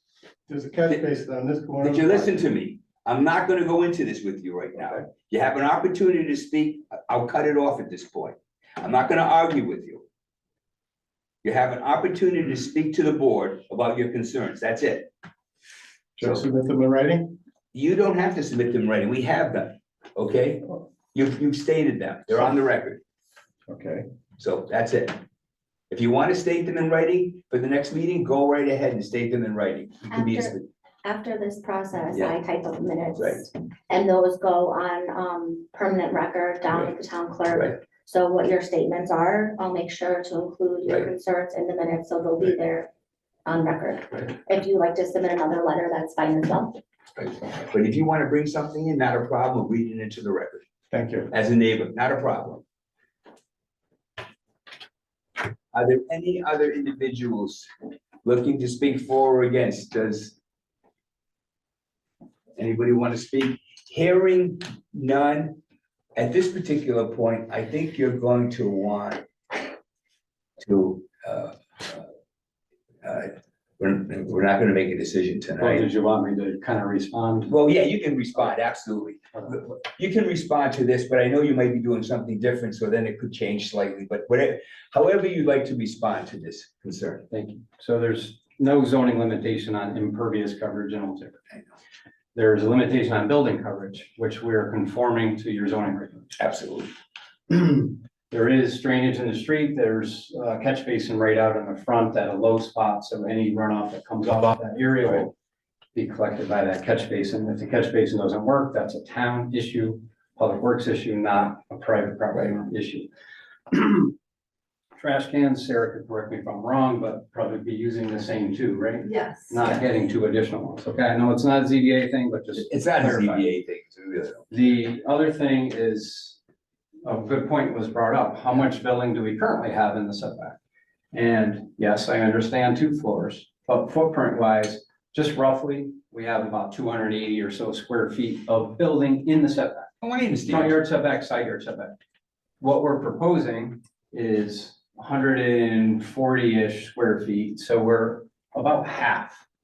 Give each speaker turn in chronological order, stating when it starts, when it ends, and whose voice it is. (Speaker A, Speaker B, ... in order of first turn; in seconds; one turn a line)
Speaker A: 0.5-2.4
Speaker B: 1.8-10.0
Speaker B: 11.4-15.1
Speaker A: 16.2-17.4
Speaker B: 17.7-23.0
Speaker A: 23.7-24.0
Speaker B: 24.4-25.2
Speaker B: 25.9-30.7
Speaker C: 30.1-30.5
Speaker C: 31.0-42.9
Speaker B: 33.2-33.5
Speaker C: 43.5-46.8
Speaker B: 47.2-50.6
Speaker A: 50.9-51.3
Speaker B: 51.3-52.6
Speaker B: 55.7-57.7
Speaker B: 58.2-60.4
Speaker B: 62.6-65.6
Speaker B: 66.2-69.2
Speaker B: 70.6-72.1
Speaker B: 73.0-75.9
Speaker D: 75.6-77.5
Speaker B: 77.5-87.3
Speaker D: 87.3-91.6
Speaker D: 92.3-96.4
Speaker B: 96.4-96.9
Speaker D: 97.5-105.3
Speaker D: 105.9-113.1
Speaker D: 113.7-114.1
Speaker D: 115.0-123.4
Speaker B: 122.5-124.5
Speaker D: 124.5-126.4
Speaker D: 127.0-130.6
Speaker D: 131.1-139.9
Speaker B: 140.0-140.8
Speaker D: 140.5-141.9
Speaker D: 142.6-149.4